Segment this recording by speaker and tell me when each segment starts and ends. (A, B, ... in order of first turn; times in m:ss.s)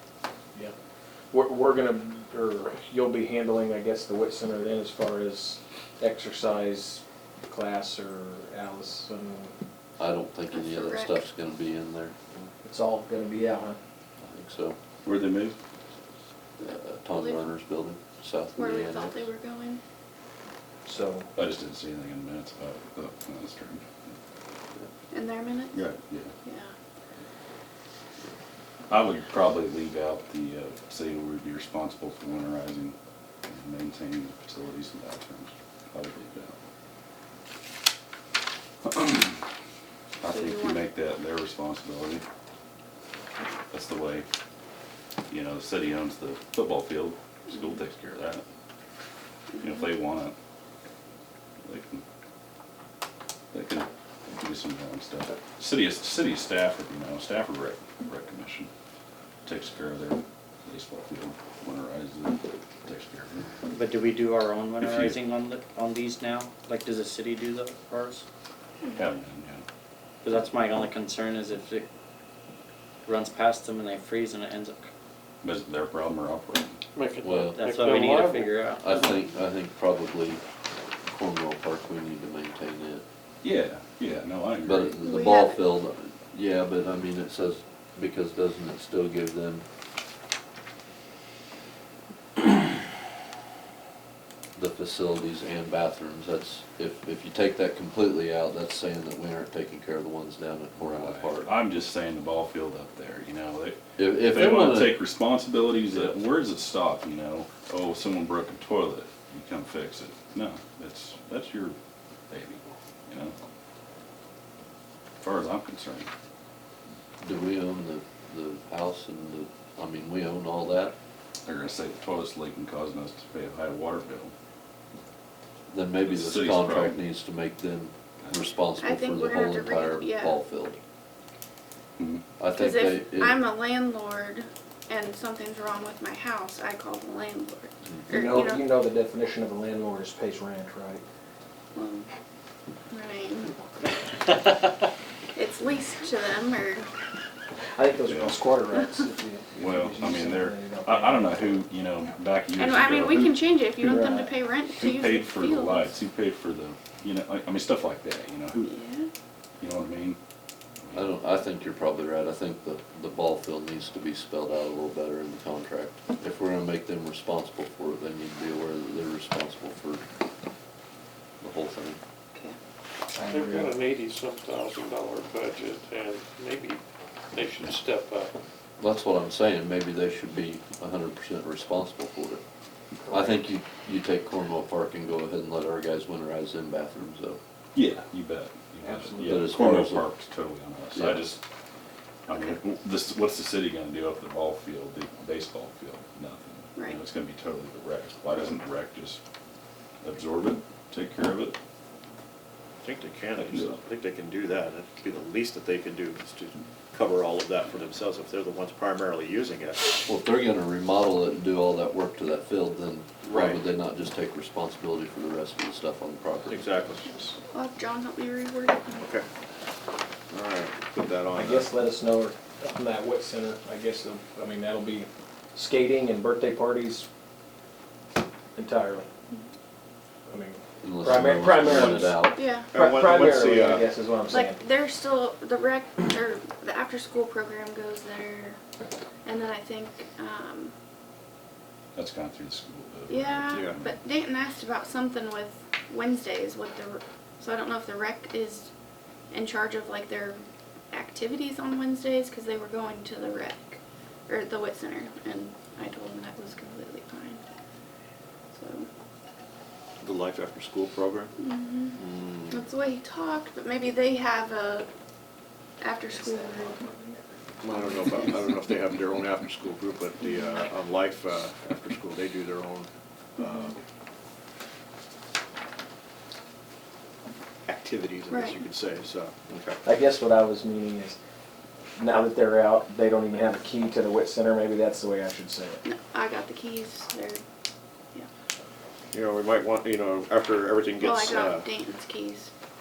0:01.3-0:09.5 A
0:10.0-0:12.4 B
0:10.5-0:11.2 C
0:12.6-0:13.8 A
0:14.2-0:14.8 B
0:15.0-0:15.6 D
0:16.6-0:17.5 C
0:16.6-0:19.3 B
0:18.6-0:19.8 C
0:20.8-0:21.3 A
0:21.4-0:24.1 D
0:25.1-0:25.8 C
0:25.7-0:26.3 D
0:26.4-0:26.7 C
0:28.9-0:33.0 D
0:33.5-0:36.6 D
0:38.8-0:39.4 D
0:40.2-0:42.2 D
0:40.2-0:40.8 C
0:43.7-0:44.3 D
0:45.3-0:48.4 D
0:49.6-0:50.4 D
0:51.6-0:52.0 D
0:53.5-0:58.7 D
0:59.5-1:03.5 D
1:03.7-1:08.3 E
1:04.8-1:05.2 D
1:09.0-1:09.6 D
1:10.2-1:11.9 E
1:13.1-1:14.9 E
1:15.4-1:16.8 D
1:17.0-1:18.6 F
1:17.2-1:17.6 B
1:17.5-1:19.2 E
1:18.8-1:20.4 B
1:21.1-1:23.0 B
1:23.4-1:25.0 D
1:24.6-1:29.6 B
1:25.0-1:25.6 C
1:34.6-1:41.5 B
1:40.8-1:51.8 D
1:44.0-1:45.0 B
1:52.3-1:53.4 D
1:55.2-1:56.1 D
1:57.2-2:01.0 B
2:01.5-2:04.3 D
2:05.7-2:10.8 B
2:06.0-2:07.0 D
2:08.8-2:10.4 C
2:12.0-2:12.2 D
2:12.4-2:13.4 B
2:12.5-2:18.6 C
2:18.1-2:21.0 A
2:21.8-2:22.1 C
2:22.9-2:23.6 C
2:25.3-2:26.9 C
2:27.8-2:31.5 A
2:28.0-2:28.4 D
2:29.6-2:33.4 D
2:32.6-2:35.9 C
2:33.8-2:34.3 A
2:34.7-2:38.7 D
2:38.6-2:39.1 C
2:39.6-2:40.2 D
2:40.8-2:41.1 D
2:40.9-2:50.0 B
2:51.4-2:52.0 B
2:53.1-2:53.8 A
2:53.2-2:56.8 F
2:57.3-2:58.3 F
2:58.8-3:02.4 B
3:03.0-3:03.4 A
3:03.1-3:07.4 B
3:07.8-3:11.4 D
3:08.8-3:09.3 A
3:09.2-3:10.1 B
3:10.9-3:11.3 B
3:12.3-3:19.2 D
3:16.8-3:17.0 C
3:20.0-3:21.6 D
3:22.8-3:30.0 G
3:23.4-3:23.8 D
3:30.1-3:36.6 B
3:33.2-3:33.6 G
3:36.5-3:37.4 G
3:37.5-3:39.0 C
3:39.0-3:39.3 G
3:40.3-3:41.7 G
3:41.3-3:47.1 A
3:48.6-3:49.1 A
3:50.3-3:54.6 A
3:50.8-3:52.4 B
3:52.4-3:52.7 C
3:52.7-3:53.9 G
3:54.3-3:58.6 C
3:59.2-4:00.7 C
4:02.0-4:03.9 D
4:03.1-4:08.7 C
4:03.5-4:03.8 G
4:09.3-4:10.4 C
4:10.9-4:17.4 C
4:18.5-4:18.9 C
4:20.0-4:21.3 G
4:21.4-4:22.0 C
4:21.9-4:22.7 G
4:22.5-4:24.9 C
4:25.8-4:27.0 C
4:27.6-4:32.9 G
4:30.2-4:30.6 C
4:33.4-4:33.7 C
4:33.4-4:33.8 G
4:37.7-4:39.8 G
4:38.3-4:38.6 C
4:39.8-4:41.2 A
4:42.0-4:45.8 A
4:45.8-4:47.4 C
4:49.1-4:51.7 G
4:51.0-4:52.5 C